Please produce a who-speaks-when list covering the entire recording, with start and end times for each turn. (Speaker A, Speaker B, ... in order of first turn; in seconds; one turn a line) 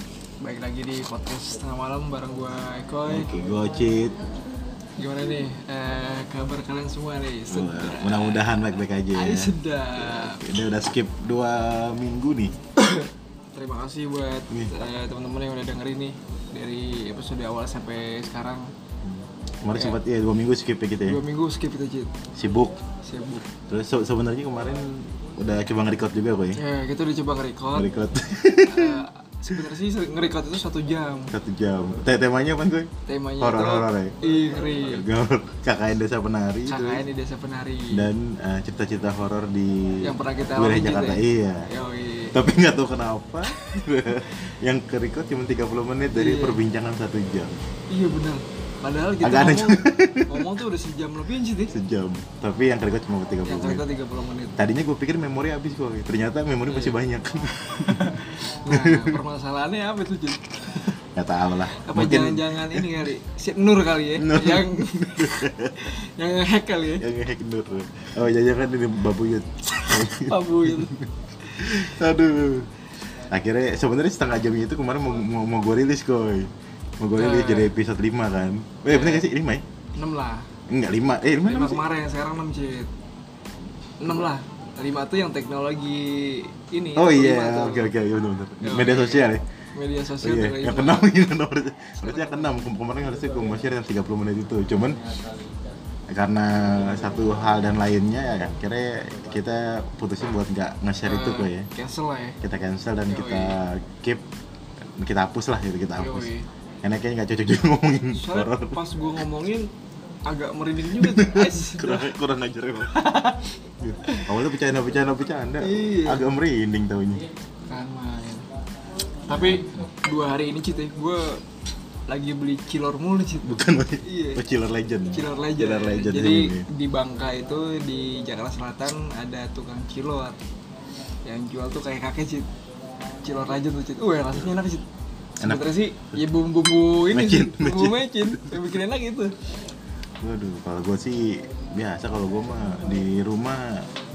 Speaker A: 0.4-3.3
Speaker B: 3.1-4.2
Speaker A: 5.0-8.4
Speaker B: 7.5-12.6
Speaker A: 9.1-10.4
Speaker A: 12.8-18.7
Speaker B: 19.0-21.2
Speaker A: 21.0-22.1
Speaker B: 22.3-22.8
Speaker A: 23.0-23.4
Speaker B: 23.7-26.6
Speaker A: 26.6-27.9
Speaker B: 27.7-29.1
Speaker A: 28.6-31.3
Speaker B: 31.3-34.1
Speaker A: 33.1-35.0
Speaker B: 34.8-37.0
Speaker A: 36.7-38.1
Speaker B: 37.9-41.7
Speaker A: 40.0-42.4
Speaker B: 42.3-47.6
Speaker A: 46.1-46.6
Speaker A: 47.9-51.7
Speaker B: 49.2-50.5
Speaker B: 51.7-53.8
Speaker A: 53.4-54.6
Speaker B: 54.5-59.2
Speaker A: 56.7-57.0
Speaker A: 57.8-60.9
Speaker B: 61.0-62.9
Speaker A: 61.8-67.0
Speaker B: 64.2-65.9
Speaker B: 67.0-79.7
Speaker A: 69.8-71.9
Speaker A: 77.2-77.7
Speaker A: 78.9-79.2
Speaker A: 79.9-80.5
Speaker B: 80.7-81.8
Speaker A: 81.4-82.9
Speaker A: 84.0-87.9
Speaker B: 86.9-89.5
Speaker A: 88.6-91.1
Speaker B: 90.2-95.1
Speaker A: 92.0-92.5
Speaker B: 96.1-101.7
Speaker A: 101.0-102.4
Speaker B: 102.4-104.2
Speaker A: 103.1-103.5
Speaker B: 104.8-106.3
Speaker A: 106.0-106.5
Speaker B: 106.8-108.8
Speaker A: 108.1-109.7
Speaker A: 110.3-112.1
Speaker B: 110.9-117.2
Speaker A: 112.9-113.5
Speaker A: 114.0-114.3
Speaker A: 115.6-116.3
Speaker A: 117.7-118.5
Speaker B: 119.3-119.9
Speaker A: 119.3-121.4
Speaker A: 122.1-124.4
Speaker B: 123.4-126.7
Speaker A: 125.1-130.4
Speaker A: 131.2-132.5
Speaker A: 133.2-134.8
Speaker A: 135.4-139.3
Speaker B: 135.4-136.2
Speaker B: 137.1-138.7
Speaker B: 140.2-143.9